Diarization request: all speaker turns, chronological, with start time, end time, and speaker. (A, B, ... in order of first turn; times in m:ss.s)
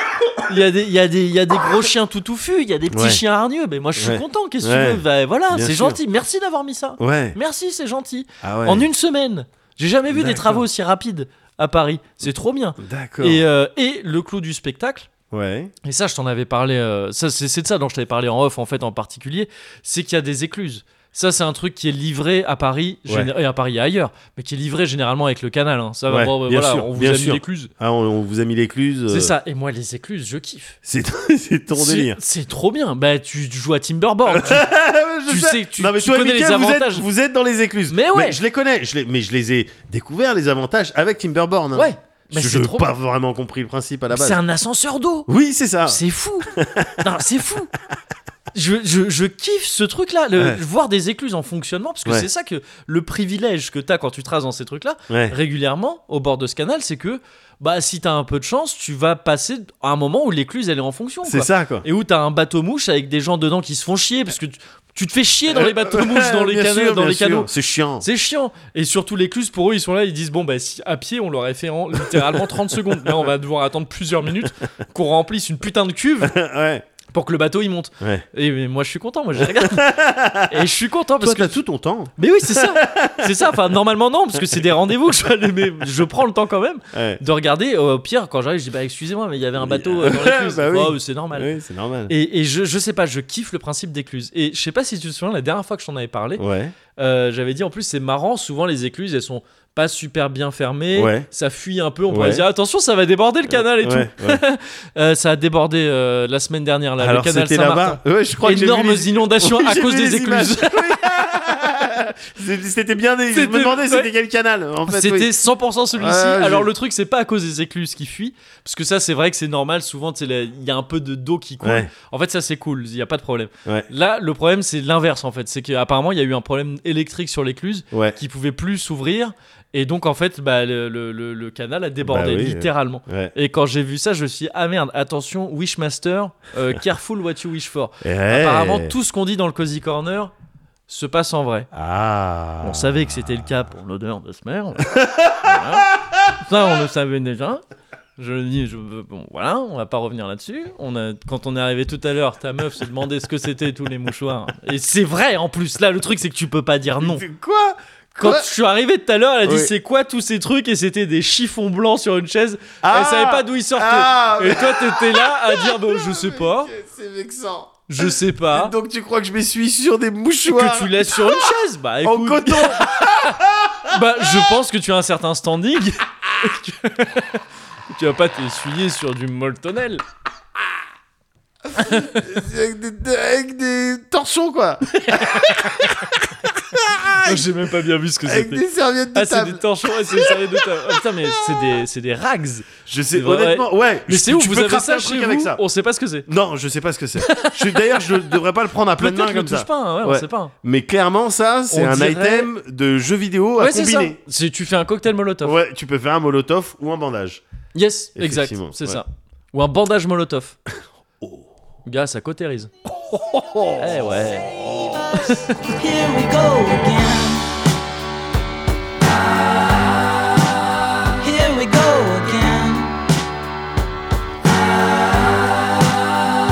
0:00.4-0:15.1 A
0:02.9-0:03.2 B
0:04.0-0:06.0 B
0:07.0-0:07.4 B
0:08.4-0:08.9 B
0:10.1-0:10.6 B
0:12.8-0:13.4 B
0:15.3-0:15.7 B
0:15.8-0:27.7 A
0:26.1-0:29.3 B
0:29.1-0:30.8 A
0:30.8-0:32.2 B
0:31.7-0:34.7 A
0:34.3-0:44.4 B
0:35.3-0:37.0 A
0:37.9-0:38.4 A
0:41.7-0:42.9 A
0:44.1-0:45.3 A
0:45.3-0:46.0 B
0:45.8-0:47.7 A
0:46.5-0:47.0 B
0:48.5-1:07.5 A
0:55.1-0:55.4 B
1:01.2-1:01.8 B
1:05.5-1:08.0 B
1:08.0-1:16.4 A
1:12.0-1:12.9 B
1:16.2-1:16.8 B
1:17.1-1:21.6 A
1:19.4-1:23.6 B
1:22.2-1:31.5 A
1:26.9-1:27.2 B
1:29.6-1:32.1 B
1:32.1-1:36.4 A
1:36.4-1:36.7 B
1:37.0-1:51.0 A
1:40.9-1:41.3 B
1:42.1-1:42.4 B
1:43.5-1:44.4 B
1:47.0-1:55.3 B
1:53.3-1:54.1 A
1:54.9-2:20.3 A
1:55.9-1:56.7 B
2:01.6-2:01.9 B
2:07.9-2:08.2 B
2:12.0-2:13.3 B
2:18.0-2:18.9 B
2:20.9-2:21.7 A
2:21.7-2:23.7 B
2:22.6-2:27.6 A
2:24.8-2:25.6 B
2:28.2-2:37.2 A
2:37.0-2:38.5 B
2:38.2-2:46.7 A
2:39.4-2:39.7 B
2:42.8-2:54.5 B
2:47.9-2:48.7 A
2:50.5-3:00.0 A
3:01.7-3:07.6 B
3:01.8-3:02.2 A
3:04.9-3:06.2 A
3:07.0-3:16.3 A
3:08.2-3:11.8 B
3:12.8-3:15.6 B
3:16.3-3:24.2 B
3:17.2-3:18.3 A
3:19.0-3:20.5 A
3:21.7-3:22.5 A
3:23.6-3:25.6 A
3:25.4-3:27.4 B
3:27.7-3:30.6 A
3:28.2-3:29.0 B
3:31.2-3:31.5 B
3:31.8-3:32.7 A
3:33.1-3:34.1 B
3:33.8-3:34.6 A
3:34.6-3:37.4 C
3:41.2-3:43.0 C
3:44.5-3:45.8 C